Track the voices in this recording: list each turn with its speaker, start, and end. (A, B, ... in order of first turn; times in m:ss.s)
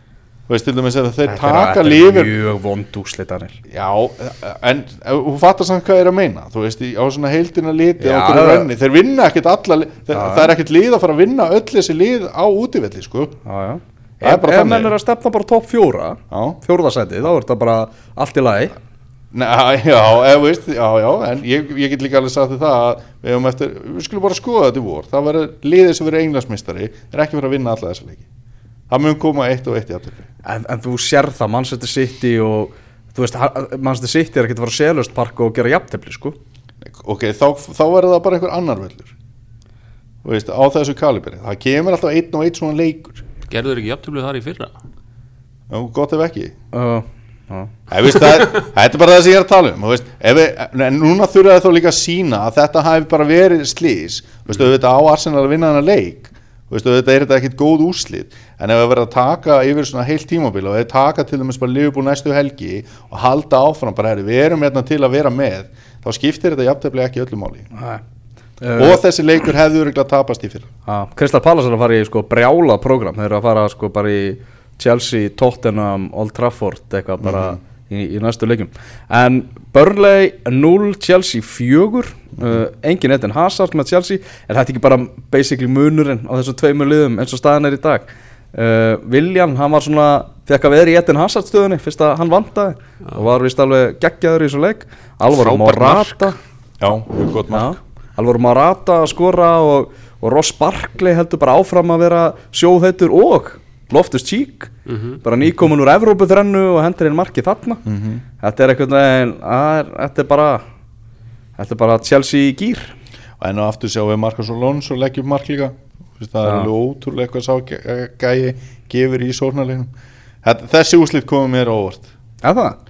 0:00.5-0:02.3 A
0:01.2-0:03.6 B
0:03.7-0:13.4 A
0:08.0-0:08.7 B
0:10.1-0:10.5 B
0:13.4-0:18.8 B
0:14.2-0:14.9 A
0:16.3-0:16.6 A
0:19.3-0:28.2 A
0:28.9-0:30.2 A
0:30.4-0:36.4 B
0:36.9-0:39.1 A
0:40.2-0:43.2 A
0:43.5-0:44.7 C
0:45.7-0:46.5 A
0:46.7-0:47.7 B
0:47.9-1:07.7 A
1:07.7-1:08.0 B
1:08.6-1:09.0 B
1:08.8-1:10.7 A
1:10.8-1:36.4 B
1:17.2-1:17.6 A
1:35.4-1:36.3 C
1:36.8-1:37.8 A
1:37.5-1:44.7 B
1:44.8-1:45.2 C
1:45.2-1:47.8 B
1:47.8-1:48.2 A
1:48.4-1:50.6 B
1:51.6-1:52.9 B
1:53.4-1:59.9 A
2:00.4-2:02.1 A
2:02.4-2:02.8 B